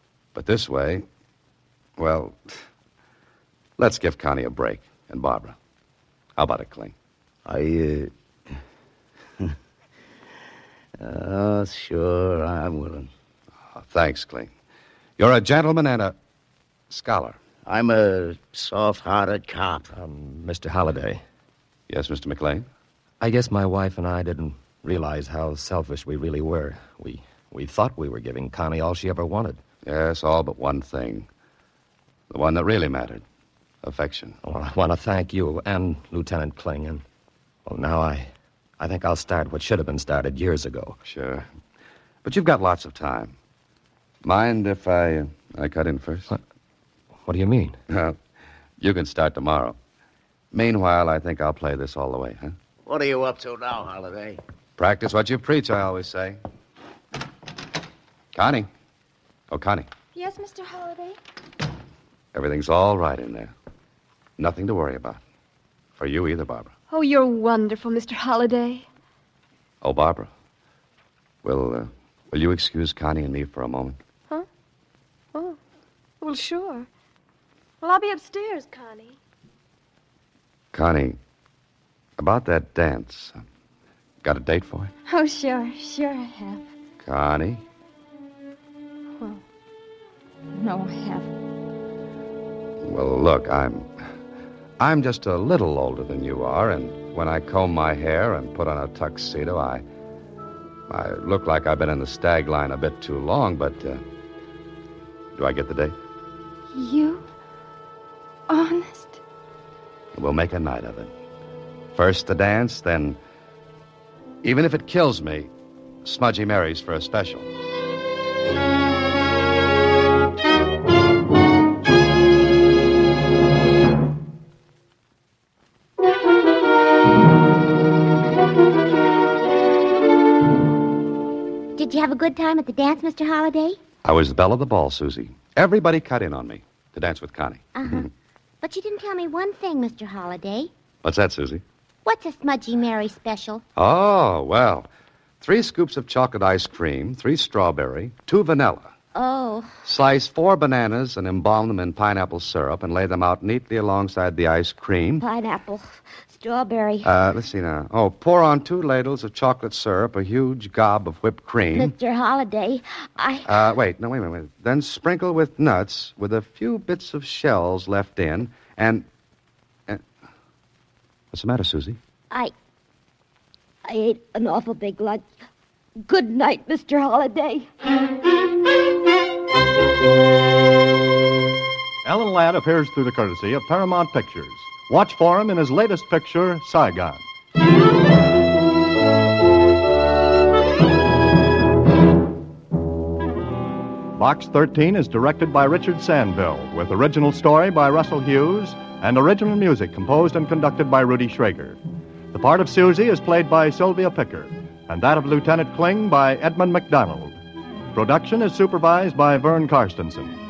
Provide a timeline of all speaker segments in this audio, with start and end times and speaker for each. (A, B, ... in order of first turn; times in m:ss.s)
0:00.3-0:01.0 A
0:02.0-0:02.5 A
0:03.8-0:05.6 A
0:06.4-0:06.9 A
0:07.4-0:08.1 B
0:11.0-0:13.1 B
0:13.8-0:14.5 A
0:15.2-0:16.1 A
0:16.9-0:17.4 A
0:17.6-0:19.9 B
0:19.9-0:21.2 C
0:21.9-0:22.6 A
0:23.2-0:29.6 C
0:29.8-0:31.3 A
0:32.3-0:33.2 A
0:33.8-0:34.4 A
0:34.4-0:37.0 C
0:37.6-0:41.0 C
0:41.0-0:41.5 A
0:42.2-0:43.3 A
0:44.2-0:46.3 A
0:47.2-0:47.8 C
0:47.9-0:48.2 A
0:48.8-0:49.8 A
0:50.5-0:52.5 A
0:52.8-0:54.4 B
0:54.8-0:56.4 A
0:58.3-0:58.7 A
0:59.5-0:59.9 A
1:00.1-1:01.2 D
1:02.3-1:03.5 A
1:04.4-1:05.2 A
1:06.0-1:06.7 A
1:06.9-1:08.9 E
1:09.8-1:10.3 A
1:11.4-1:14.0 A
1:15.3-1:15.6 E
1:16.2-1:16.9 E
1:17.8-1:19.2 E
1:20.7-1:21.2 A
1:22.2-1:23.4 A
1:24.2-1:24.9 A
1:25.0-1:26.6 D
1:27.0-1:27.6 A
1:30.5-1:31.3 D
1:32.8-1:33.9 A
1:34.8-1:39.8 A
1:40.9-1:44.0 A
1:45.3-1:45.9 A
1:46.7-1:47.2 D
1:48.5-1:49.2 D
1:50.1-1:51.1 A
1:51.9-1:53.2 A
1:54.4-1:55.5 A
1:56.0-1:57.5 A
2:11.8-2:13.8 F
2:14.0-2:18.1 A
2:17.7-2:18.1 F
2:18.6-2:20.7 F
2:21.0-2:21.6 A
2:22.0-2:23.6 F
2:23.8-2:24.9 A
2:25.4-2:28.9 A
2:29.1-2:29.8 F
2:29.8-2:35.2 A
2:35.2-2:37.1 F
2:37.0-2:41.9 A
2:41.7-2:43.6 F
2:43.4-2:49.0 A
2:51.3-2:52.0 A
2:53.8-2:55.2 F
2:56.0-2:57.7 F
3:02.0-3:07.2 G
3:14.2-3:21.8 G
3:22.3-3:27.4 G
3:27.9-3:30.3 G